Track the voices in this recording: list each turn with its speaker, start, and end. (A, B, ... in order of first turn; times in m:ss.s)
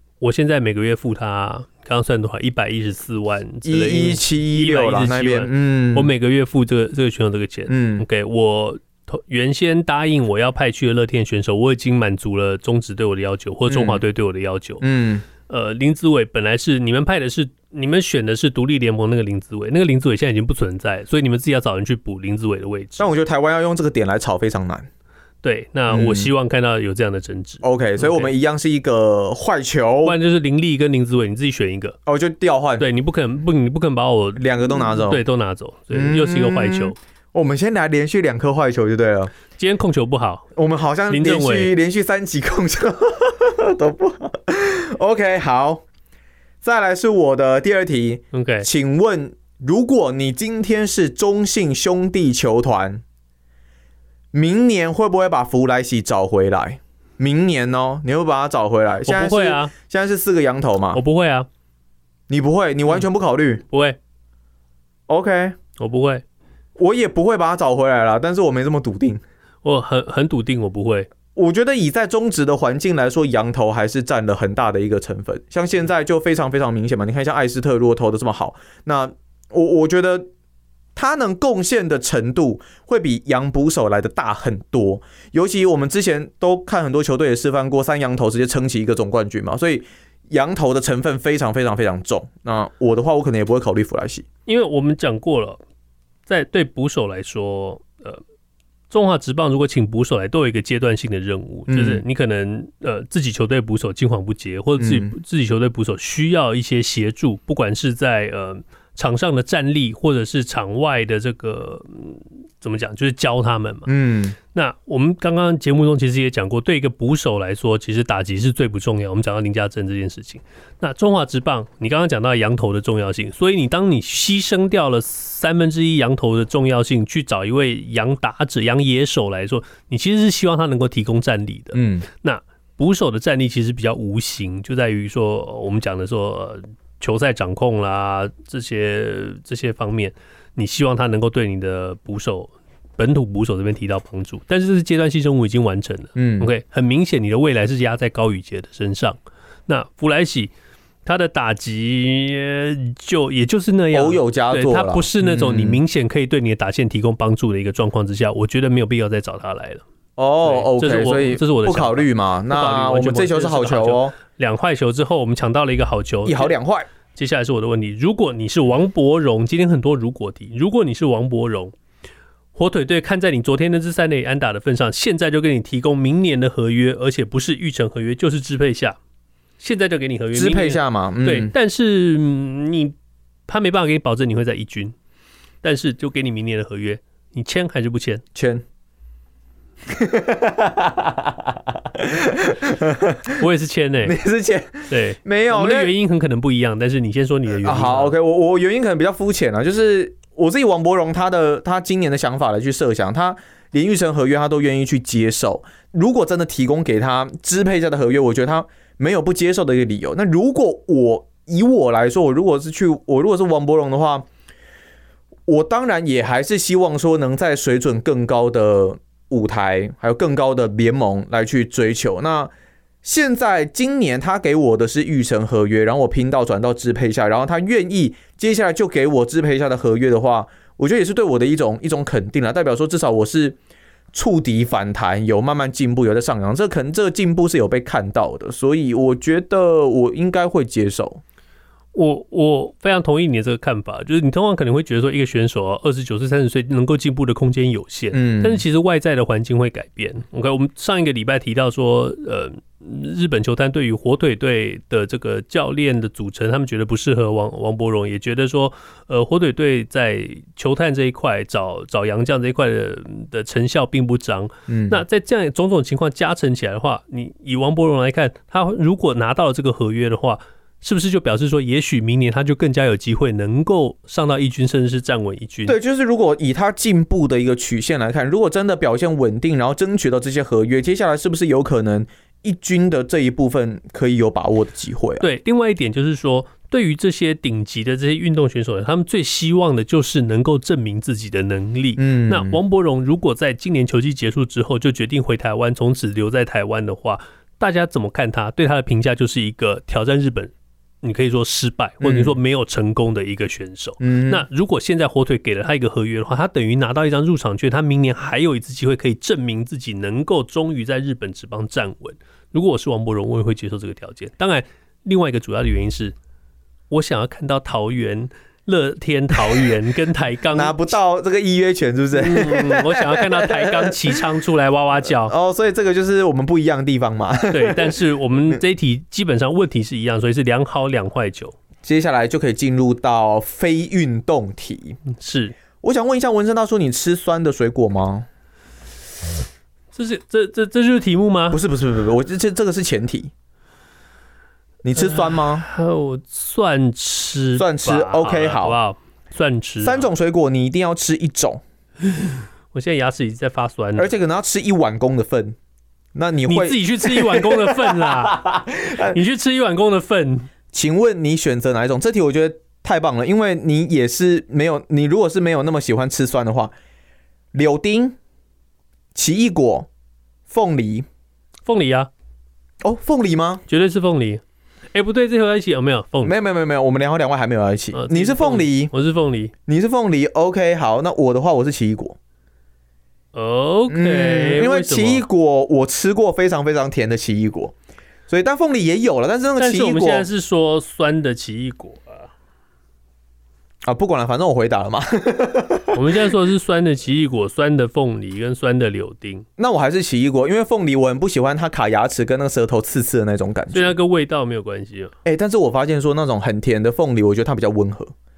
0:00.2-0:14.8 A
0:03.6-0:06.1 B
0:07.7-0:08.0 B
0:13.7-0:14.0 B
0:14.8-0:15.2 B
0:15.4-0:23.1 A
0:23.0-0:24.9 B
0:25.4-0:28.3 A
0:25.9-0:26.3 B
0:27.6-0:30.2 B
0:30.0-0:32.0 A
0:32.0-0:32.9 B
0:32.8-0:37.0 A
0:34.4-0:35.2 B
0:35.9-0:39.3 B
0:39.5-0:40.4 A
0:40.6-0:45.8 B
0:41.1-0:41.8 A
0:46.6-0:53.0 B
0:48.3-0:48.7 A
0:54.3-1:01.0 B
0:59.0-0:59.7 A
1:00.9-1:01.5 A
1:02.3-1:03.6 B
1:03.7-1:04.0 A
1:05.1-1:05.6 B
1:05.8-1:06.2 A
1:06.8-1:09.2 B
1:09.6-1:11.1 A
1:11.3-1:20.3 B
1:20.9-1:34.2 B
1:34.4-1:35.6 A
1:36.3-1:38.2 A
1:38.9-1:53.9 A
1:41.7-1:42.0 B
1:44.8-1:45.2 B
1:53.9-1:54.4 B
1:54.5-2:30.5 A
2:11.7-2:12.1 B
2:26.2-2:26.5 B
2:31.0-2:39.8 A
2:33.9-2:35.8 B
2:40.2-2:44.2 B
2:40.4-2:46.5 A
2:46.2-2:46.9 B
2:47.1-2:51.7 A
2:52.5-2:59.0 A
2:59.6-3:02.9 A
3:00.3-3:01.5 B
3:03.5-3:04.9 A
3:05.6-3:08.2 A
3:08.3-3:08.6 B
3:09.9-3:13.5 B
3:13.4-3:14.2 A
3:14.0-3:15.9 B
3:14.9-3:18.2 A
3:17.5-3:34.2 B
3:35.5-3:42.5 B
3:43.0-3:53.6 B
3:54.1-4:01.2 B
4:01.9-4:35.8 A
4:08.1-4:08.6 B
4:24.7-4:25.0 B
4:35.6-4:45.3 B
4:45.2-5:16.1 A
4:52.0-4:52.6 B
5:02.0-5:02.4 B
5:04.0-5:04.4 B
5:16.9-5:20.9 A
5:20.5-5:24.2 B
5:22.1-5:25.3 A
5:25.0-5:28.0 B
5:27.5-5:31.5 A
5:31.8-5:35.0 B
5:35.1-5:35.5 A
5:35.8-5:38.2 B
5:39.9-5:41.6 A
5:41.5-5:43.3 B
5:44.8-5:45.6 B
5:45.0-5:50.1 A
5:47.6-5:48.8 B
5:49.8-5:51.6 B
5:52.7-5:54.1 A
5:54.0-5:55.6 B
5:56.1-5:59.2 B
5:56.4-6:00.5 A
6:00.7-6:06.7 B
6:07.5-6:08.2 B
6:09.1-6:09.9 B
6:10.5-6:11.0 B
6:11.6-6:12.1 A
6:12.8-6:13.6 B
6:13.7-6:14.4 A
6:14.9-6:16.4 A
6:16.2-6:18.9 B
6:17.9-6:19.5 A
6:19.7-6:22.2 B
6:23.3-6:25.3 A
6:23.9-6:27.7 B
6:28.3-6:30.3 B
6:29.6-6:32.3 A
6:33.8-6:36.0 B
6:35.9-6:39.4 A
6:39.6-6:44.0 B
6:43.7-6:45.1 A
6:45.2-6:48.1 B